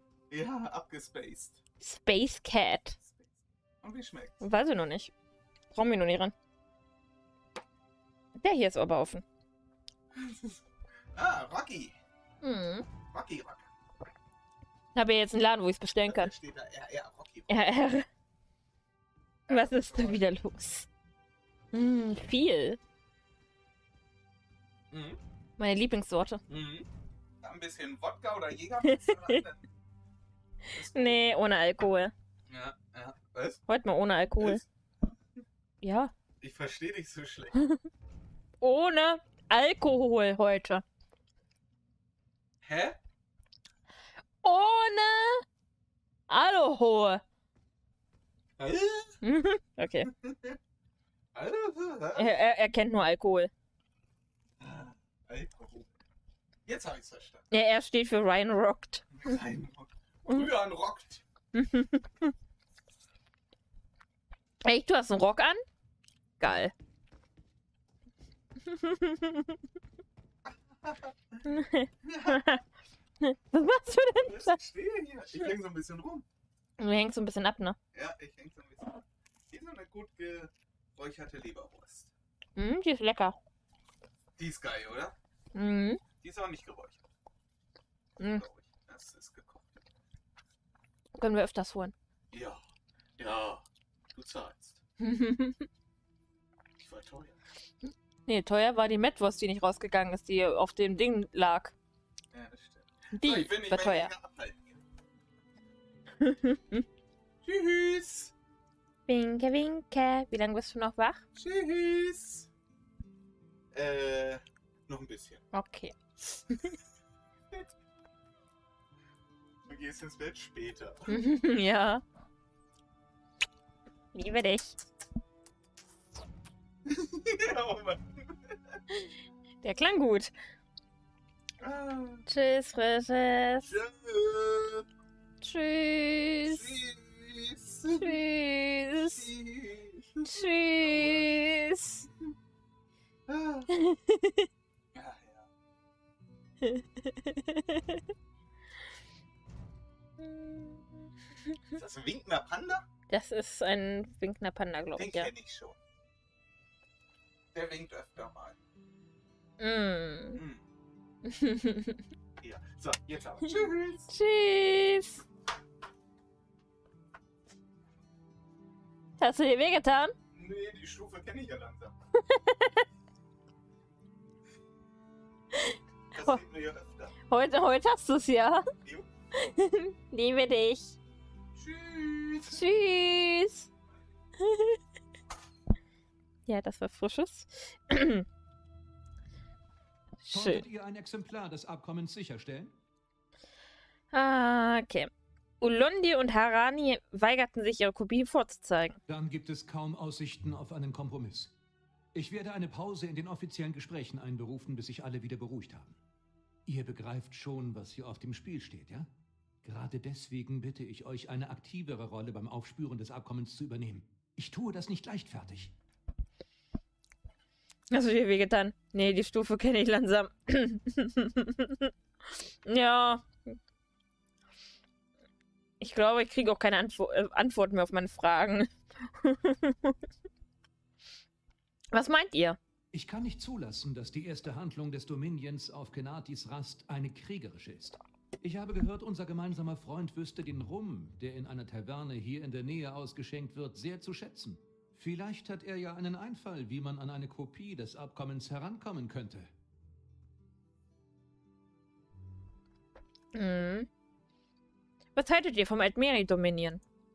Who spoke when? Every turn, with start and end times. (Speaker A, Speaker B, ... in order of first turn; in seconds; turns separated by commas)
Speaker A: 0.3-1.6, Speaker B: 1.8-3.0, Speaker A: 3.0-4.4, Speaker B: 4.4-5.1, Speaker B: 5.7-6.3, Speaker B: 8.4-9.2, Speaker A: 10.1-10.6, Speaker A: 11.2-12.0, Speaker B: 12.4-12.9, Speaker A: 13.1-13.7, Speaker B: 14.9-16.3, Speaker A: 16.0-17.6, Speaker B: 17.5-18.1, Speaker A: 19.5-20.2, Speaker B: 19.5-20.9, Speaker B: 21.7-22.8, Speaker A: 24.9-25.2, Speaker B: 25.6-26.4, Speaker A: 26.5-26.9, Speaker A: 27.4-29.6, Speaker A: 30.7-31.2, Speaker B: 30.9-32.1, Speaker A: 32.5-33.6, Speaker B: 33.7-34.6, Speaker A: 34.4-34.7, Speaker B: 35.8-36.1, Speaker A: 36.4-37.6, Speaker B: 38.6-40.8, Speaker A: 42.6-43.0, Speaker B: 44.4-45.4, Speaker B: 46.3-47.2, Speaker A: 48.6-49.2, Speaker B: 49.2-50.1, Speaker A: 50.2-50.6, Speaker A: 51.3-52.4, Speaker B: 52.2-53.5, Speaker A: 54.6-55.9, Speaker A: 56.7-57.5, Speaker B: 57.5-59.1, Speaker A: 59.2-61.2, Speaker B: 61.5-62.3, Speaker B: 64.7-65.6, Speaker B: 66.4-66.7, Speaker B: 68.7-69.5, Speaker A: 70.5-71.4, Speaker B: 71.5-72.6, Speaker A: 72.0-72.6, Speaker B: 73.2-74.5, Speaker A: 74.2-76.2, Speaker B: 76.8-77.8, Speaker A: 77.9-82.1, Speaker B: 82.6-83.4, Speaker A: 84.4-85.2, Speaker B: 85.5-86.0, Speaker A: 86.2-87.0, Speaker B: 88.2-88.4, Speaker A: 88.2-89.8, Speaker B: 91.2-91.9, Speaker A: 92.3-92.6, Speaker A: 93.2-94.8, Speaker B: 95.0-95.7, Speaker A: 96.8-97.4, Speaker B: 98.3-101.7, Speaker A: 102.3-104.8, Speaker B: 103.2-104.1, Speaker B: 106.2-106.8, Speaker A: 107.4-108.3, Speaker B: 109.1-111.2, Speaker A: 111.3-112.5, Speaker A: 113.7-115.5, Speaker B: 115.5-115.9, Speaker A: 119.7-121.2, Speaker B: 121.1-122.0, Speaker B: 124.1-124.8, Speaker A: 126.9-128.5, Speaker B: 129.6-130.3, Speaker A: 131.6-132.2, Speaker B: 132.3-133.7, Speaker A: 133.7-134.8, Speaker B: 135.4-136.8, Speaker A: 136.5-138.2, Speaker B: 138.0-139.3, Speaker A: 139.0-141.3, Speaker B: 140.2-142.1, Speaker A: 143.3-143.7, Speaker B: 143.7-144.5, Speaker A: 144.9-145.5, Speaker B: 146.6-148.0, Speaker B: 150.2-150.8, Speaker A: 151.7-152.8, Speaker B: 153.1-155.3, Speaker A: 155.0-155.8, Speaker A: 157.5-158.6, Speaker B: 159.6-160.4, Speaker A: 160.3-160.6, Speaker B: 161.3-162.0, Speaker A: 162.4-164.1, Speaker B: 164.1-165.2, Speaker B: 169.2-170.1, Speaker A: 170.3-172.0, Speaker B: 172.3-172.8, Speaker B: 175.5-176.4, Speaker A: 176.1-177.1, Speaker B: 177.3-178.7, Speaker B: 179.4-181.0, Speaker A: 181.6-182.7, Speaker B: 182.5-183.7, Speaker B: 184.4-184.8, Speaker B: 186.5-188.3, Speaker B: 190.2-190.6, Speaker C: 190.3-192.7, Speaker B: 194.1-195.1, Speaker B: 195.6-199.0, Speaker C: 199.1-201.5, Speaker C: 202.1-206.0, Speaker C: 206.7-209.1, Speaker C: 209.6-215.7, Speaker B: 217.9-221.9, Speaker B: 222.7-223.6, Speaker B: 225.8-230.0, Speaker B: 231.9-232.6, Speaker C: 232.9-249.5, Speaker B: 253.3-253.9, Speaker B: 255.2-256.8